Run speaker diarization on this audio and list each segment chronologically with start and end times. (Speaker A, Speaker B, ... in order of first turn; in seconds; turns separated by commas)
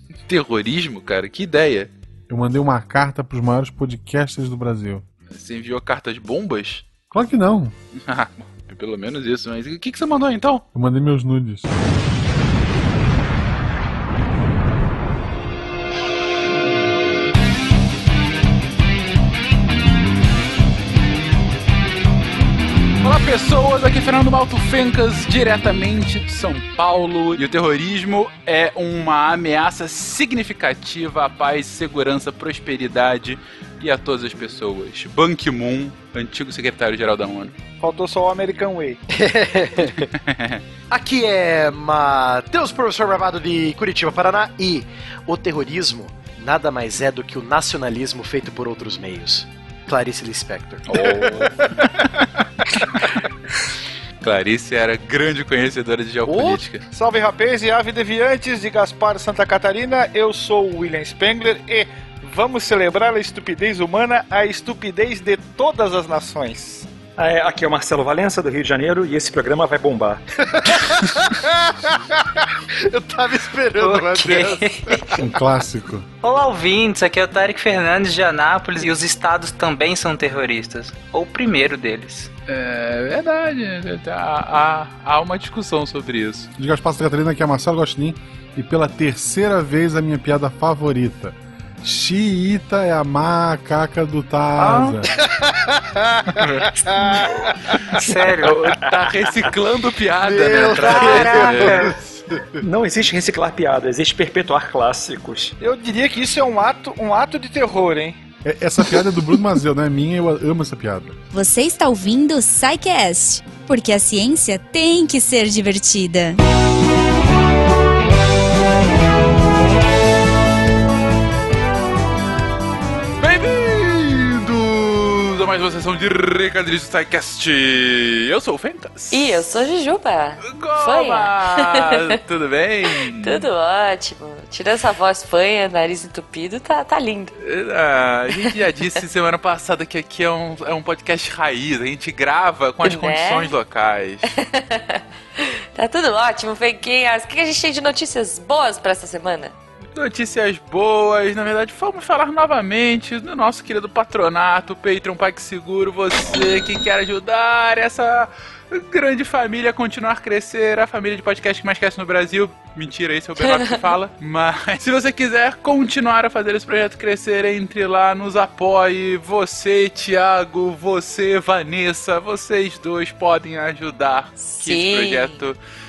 Speaker A: 0.3-1.9, Speaker B: 2.3-5.0, Speaker A: 5.3-6.9, Speaker B: 7.1-7.7, Speaker A: 8.0-10.7, Speaker B: 10.7-11.7, Speaker A: 23.0-37.5, Speaker C: 37.8-39.0, Speaker D: 39.1-40.1, Speaker A: 40.1-40.6, Speaker D: 40.9-50.9, Speaker A: 50.9-52.2, Speaker A: 54.2-56.9, Speaker D: 56.3-56.6, Speaker C: 56.9-66.9, Speaker E: 67.2-70.2, Speaker D: 70.5-72.1, Speaker D: 72.8-75.1, Speaker F: 73.8-75.2, Speaker B: 75.2-76.1, Speaker F: 76.2-82.3, Speaker A: 82.5-86.5, Speaker B: 86.6-95.1, Speaker D: 95.2-98.6, Speaker A: 96.4-96.7, Speaker F: 98.0-99.1, Speaker A: 98.8-101.9, Speaker D: 100.2-102.0, Speaker F: 100.8-101.9, Speaker E: 102.6-105.5, Speaker C: 105.6-108.2, Speaker B: 108.4-111.2, Speaker G: 111.3-116.4, Speaker A: 123.2-129.4, Speaker H: 129.1-132.1, Speaker A: 130.4-133.5, Speaker H: 133.0-137.3, Speaker A: 137.4-144.3, Speaker H: 142.8-143.6, Speaker H: 144.3-149.5, Speaker A: 150.0-175.6, Speaker H: 163.5-163.8, Speaker H: 174.4-175.4